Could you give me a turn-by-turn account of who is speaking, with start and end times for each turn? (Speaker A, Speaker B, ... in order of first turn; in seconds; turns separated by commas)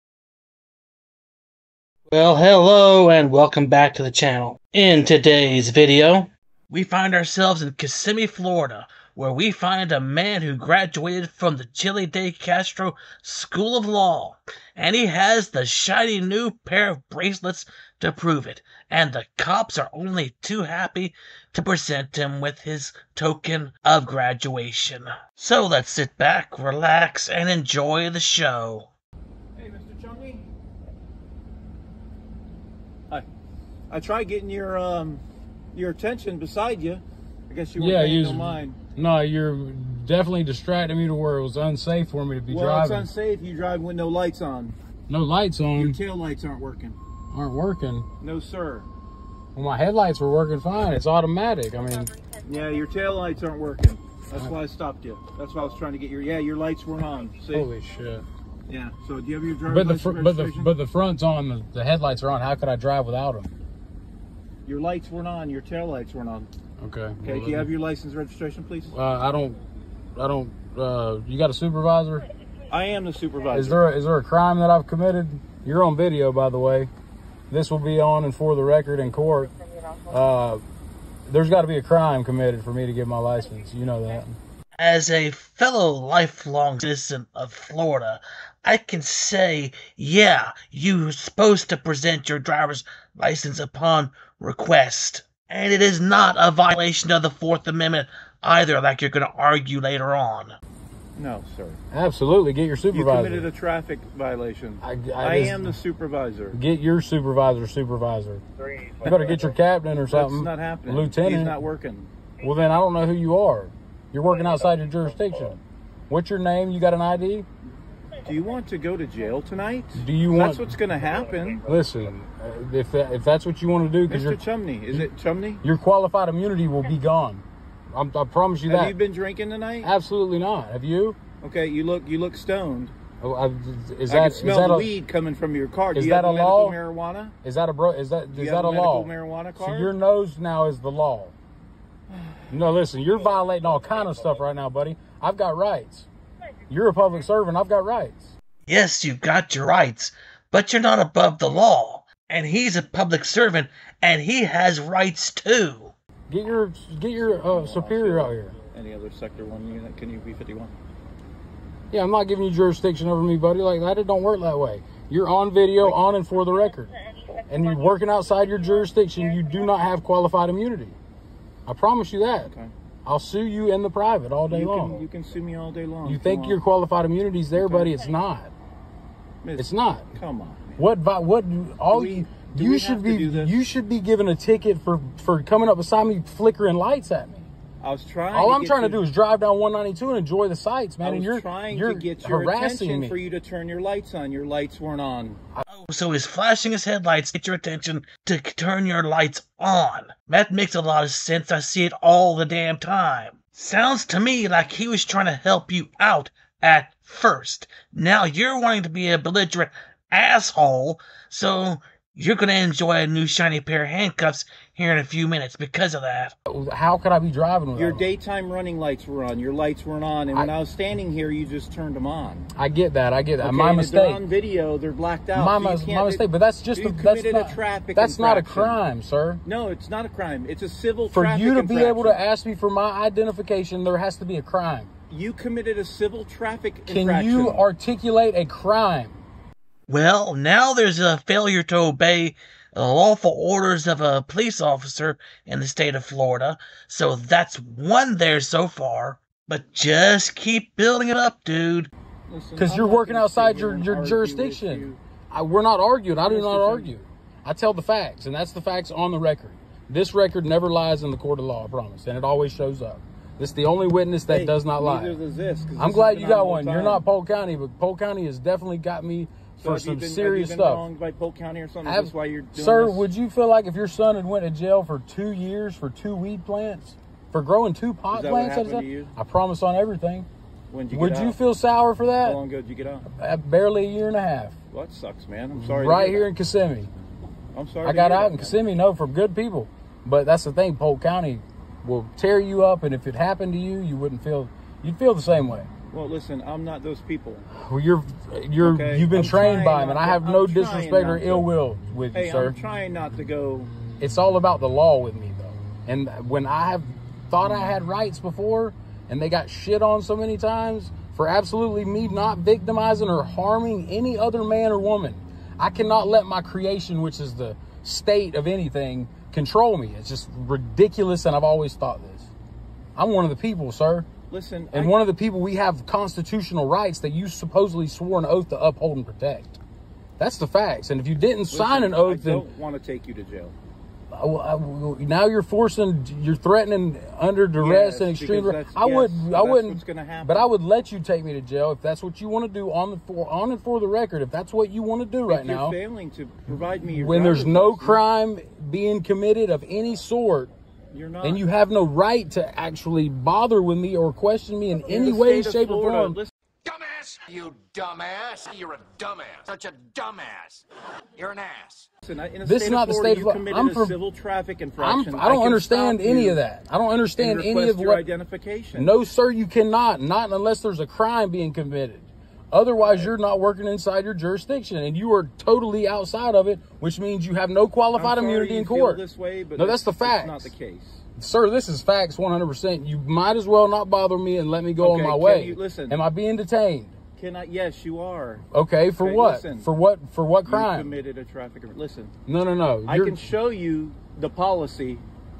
Speaker A: 2.1-28.9, Speaker B: 29.6-30.5, Speaker B: 33.9-38.8, Speaker C: 37.8-43.1, Speaker B: 42.5-44.8, Speaker C: 45.1-46.0, Speaker B: 45.8-47.0, Speaker C: 47.3-48.1, Speaker B: 48.2-48.9, Speaker C: 49.5-52.1, Speaker B: 52.4-57.7, Speaker C: 57.5-58.2, Speaker B: 58.7-60.7, Speaker C: 59.7-63.5, Speaker B: 64.7-66.5, Speaker C: 66.8-67.7, Speaker B: 67.2-68.9, Speaker C: 68.9-69.6, Speaker C: 70.2-72.3, Speaker B: 72.7-73.8, Speaker C: 73.5-76.9, Speaker C: 77.5-79.5, Speaker C: 80.1-80.6, Speaker C: 81.3-84.3, Speaker A: 84.8-100.6, Speaker B: 101.2-101.8, Speaker C: 101.9-103.5, Speaker B: 102.9-106.6, Speaker C: 104.8-105.7, Speaker C: 106.5-108.4, Speaker C: 109.0-111.6, Speaker B: 110.1-112.1, Speaker C: 112.4-117.5, Speaker B: 118.2-121.6, Speaker C: 120.0-120.7, Speaker C: 121.6-124.4, Speaker B: 124.1-125.6, Speaker C: 125.6-129.0, Speaker B: 128.7-129.9, Speaker C: 129.8-131.2, Speaker B: 131.4-132.9, Speaker C: 133.2-134.9, Speaker B: 134.1-137.3, Speaker C: 135.9-136.8, Speaker C: 137.4-141.3, Speaker B: 138.3-139.9, Speaker C: 142.5-146.1, Speaker C: 146.7-148.3, Speaker A: 148.7-155.9, Speaker C: 156.3-158.6, Speaker B: 157.2-160.7, Speaker C: 161.9-166.9, Speaker C: 167.5-171.0, Speaker C: 171.7-172.5, Speaker B: 172.4-172.7, Speaker C: 173.1-175.1, Speaker B: 174.5-176.6, Speaker C: 176.1-178.5, Speaker B: 177.5-177.9, Speaker B: 179.4-180.8, Speaker C: 179.6-180.1, Speaker C: 180.8-187.5, Speaker B: 181.9-183.6, Speaker B: 187.8-189.0, Speaker C: 188.3-193.2, Speaker B: 191.0-195.4, Speaker A: 195.7-216.4, Speaker C: 216.5-218.1, Speaker B: 217.8-222.5, Speaker C: 222.6-224.2, Speaker B: 223.4-228.8, Speaker C: 225.3-229.4, Speaker B: 229.4-232.2, Speaker C: 231.1-234.9, Speaker B: 235.1-237.7, Speaker C: 236.9-239.2, Speaker A: 239.9-251.9, Speaker B: 252.3-255.0, Speaker C: 252.6-265.2, Speaker B: 256.2-256.9, Speaker B: 264.3-267.0, Speaker C: 265.8-270.8, Speaker B: 269.6-273.1, Speaker C: 271.9-280.3, Speaker B: 278.1-279.1, Speaker B: 280.7-281.4, Speaker C: 280.9-282.4, Speaker B: 282.2-283.1, Speaker C: 283.2-284.6, Speaker B: 284.7-286.3, Speaker C: 285.6-286.9, Speaker B: 287.5-288.6, Speaker C: 287.8-295.7, Speaker B: 295.9-297.5, Speaker C: 297.6-302.6, Speaker B: 298.6-301.5, Speaker B: 302.1-303.7, Speaker C: 304.0-322.3, Speaker C: 323.0-324.1, Speaker B: 324.3-325.0, Speaker C: 324.7-329.6, Speaker C: 330.2-332.4, Speaker B: 331.5-333.5, Speaker C: 334.1-345.8, Speaker B: 337.6-340.5, Speaker B: 345.3-348.0, Speaker C: 346.9-350.5, Speaker B: 350.9-351.4, Speaker C: 351.2-356.2, Speaker B: 354.8-356.3, Speaker D: 356.7-360.6, Speaker D: 361.2-361.8, Speaker B: 362.1-366.4, Speaker C: 362.4-364.0, Speaker C: 364.8-368.0, Speaker B: 367.2-368.9, Speaker C: 368.7-379.0, Speaker B: 372.8-373.1, Speaker B: 377.9-381.0, Speaker C: 379.6-380.5, Speaker C: 381.2-387.0, Speaker B: 384.8-386.0, Speaker B: 387.2-388.4, Speaker C: 388.5-390.9, Speaker B: 389.0-389.7, Speaker B: 390.5-392.1, Speaker C: 392.3-393.2, Speaker B: 392.9-395.0